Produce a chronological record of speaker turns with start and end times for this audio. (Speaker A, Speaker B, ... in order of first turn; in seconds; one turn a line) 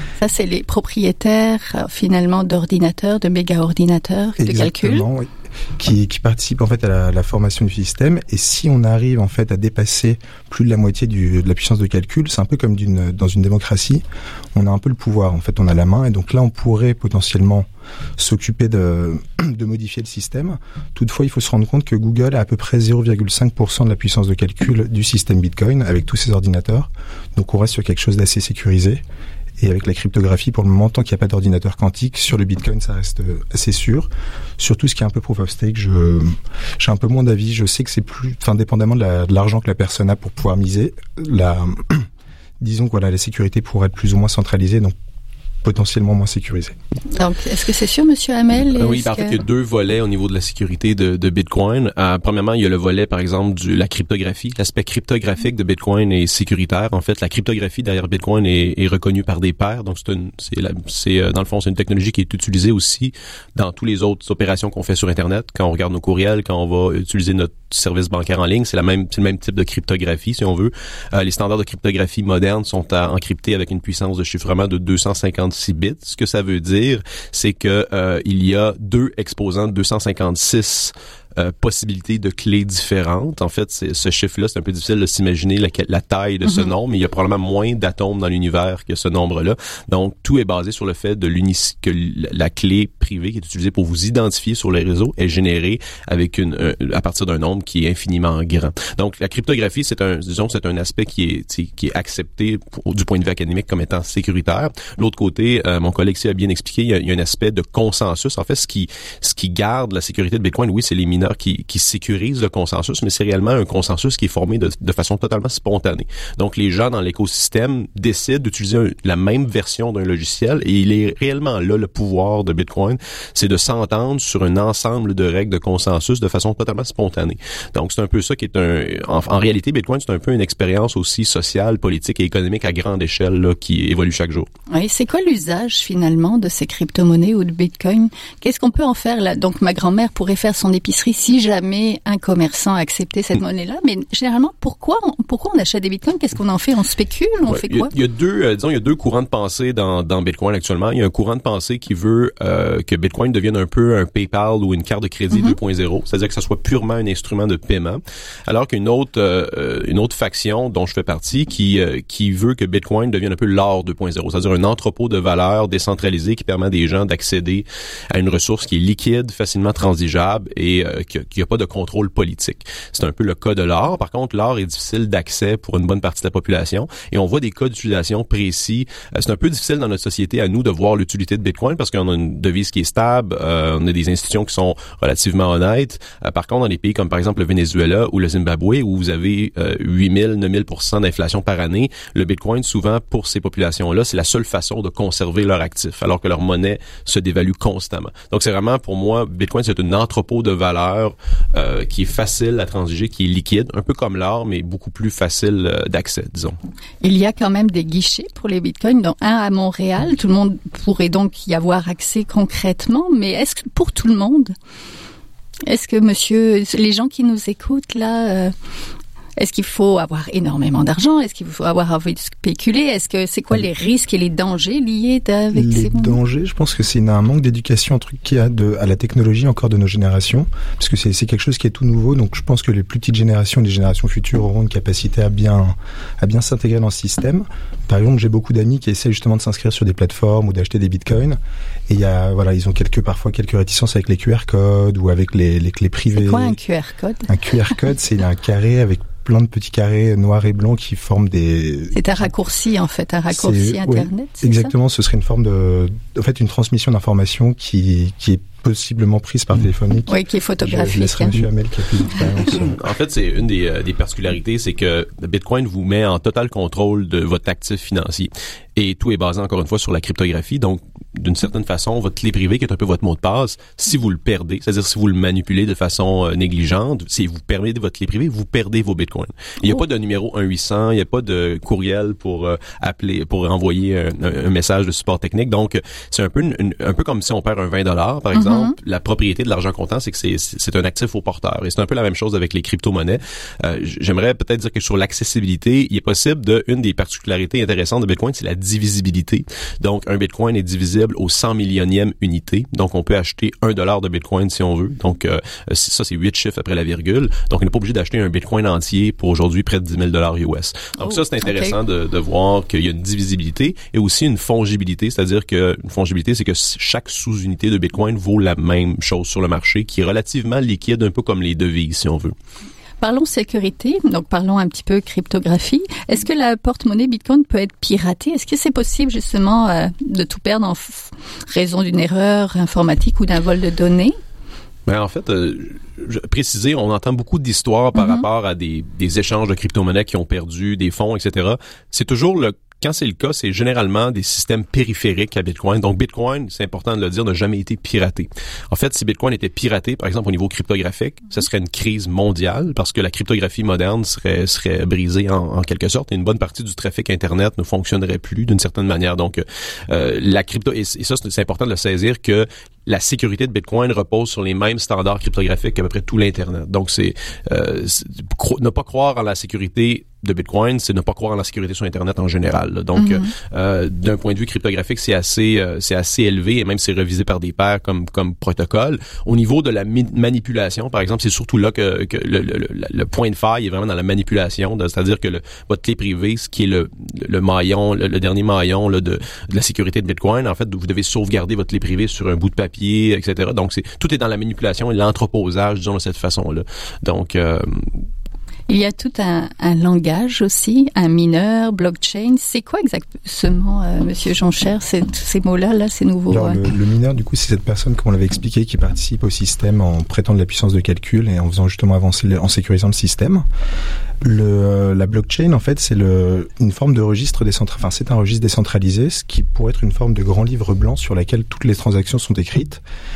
Speaker A: 0.2-5.1
Speaker B: 4.4-14.0
Speaker B: 14.6-29.0
Speaker B: 29.6-42.1
Speaker B: 42.6-45.0
Speaker B: 45.6-46.8
Speaker A: 47.1-49.4
Speaker C: 48.8-134.5
Speaker A: 86.5-86.7
Speaker A: 134.7-147.9
Speaker C: 147.5-206.6
Speaker A: 207.0-214.6
Speaker A: 215.7-218.5
Speaker A: 219.4-226.2
Speaker B: 225.5-246.6
Speaker A: 246.1-247.3
Speaker B: 247.3-252.1
Speaker A: 251.9-254.7
Speaker B: 253.3-262.8
Speaker A: 260.1-261.5
Speaker C: 262.6-322.4
Speaker A: 288.3-288.8
Speaker A: 311.0-311.8
Speaker A: 323.0-334.2
Speaker C: 334.9-398.1
Speaker A: 338.0-338.3
Speaker A: 373.0-373.3
Speaker A: 398.7-406.6
Speaker B: 406.3-413.5
Speaker B: 414.2-422.8